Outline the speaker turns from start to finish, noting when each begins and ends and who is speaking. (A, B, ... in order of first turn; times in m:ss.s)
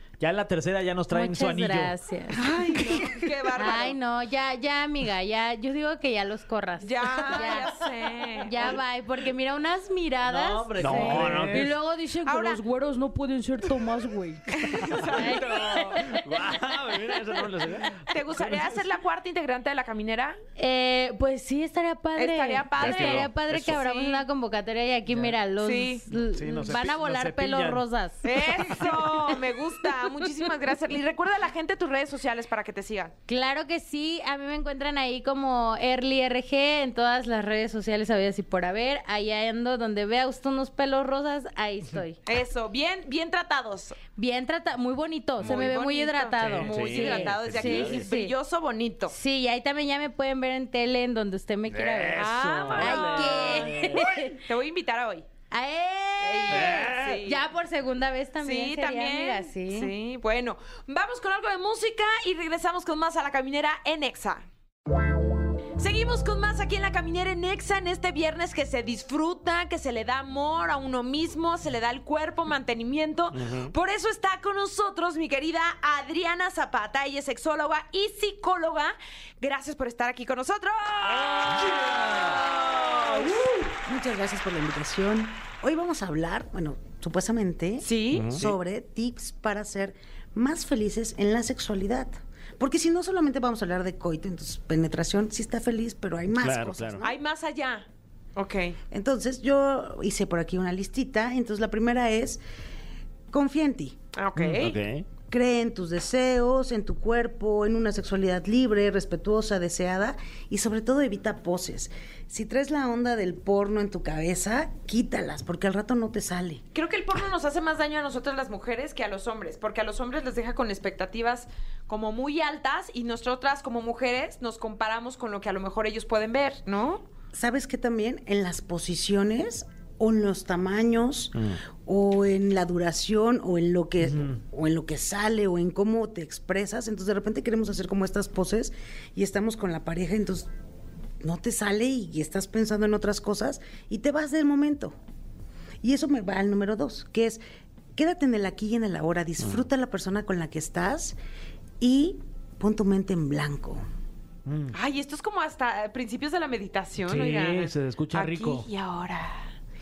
0:00.2-0:01.9 A
0:01.1-0:02.8 B
0:02.3-0:04.0 C
0:02.7-0:03.1 A
0:03.6-0:07.7 B
0:06.8-0:08.8 C
0:08.4-0:16.2 B
0:10.2-0:11.7 A
0:10.8-0:11.7 D
0:12.2-0:12.6 C
0:14.5-0:15.9 C
0:14.7-0:18.7 D
0:18.1-0:20.4 C
0:20.6-0:28.9 B
0:22.2-0:24.2 C
0:22.8-0:23.8 D
0:25.1-0:25.4 A
0:25.6-0:26.0 C
0:26.1-0:27.8 A
0:28.2-0:33.1 C
0:33.3-0:42.2 B
0:42.2-0:44.0 C
0:44.2-0:48.3 B
0:45.4-0:49.1 C
0:45.4-0:45.7 D
0:46.4-0:48.1 D
0:49.1-0:52.2 B
0:51.7-0:53.8 D
0:52.1-0:55.3 C
0:52.7-0:54.4 B
0:52.9-0:54.0 A
0:55.5-0:59.9 B
0:56.2-0:57.4 C
0:56.5-0:57.2 D
0:58.4-1:04.5 C
1:05.8-1:23.5 C
1:13.3-1:13.7 D
1:21.2-1:22.4 D
1:23.0-1:37.1 E
1:27.8-1:28.4 C
1:28.1-1:28.5 D
1:36.4-1:37.0 D
1:37.0-1:38.8 C
1:38.9-1:42.4 E
1:43.3-1:44.0 E
1:44.1-1:44.8 C
1:44.4-1:45.1 D
1:45.3-1:56.6 E
1:56.7-2:07.0 C
2:07.3-2:20.5 E
2:21.2-2:25.0 E
2:25.8-2:27.4 E
2:28.0-2:31.2 E
2:31.8-2:33.8 E
2:34.4-2:34.7 A
2:34.7-2:39.5 C
2:37.0-2:38.7 A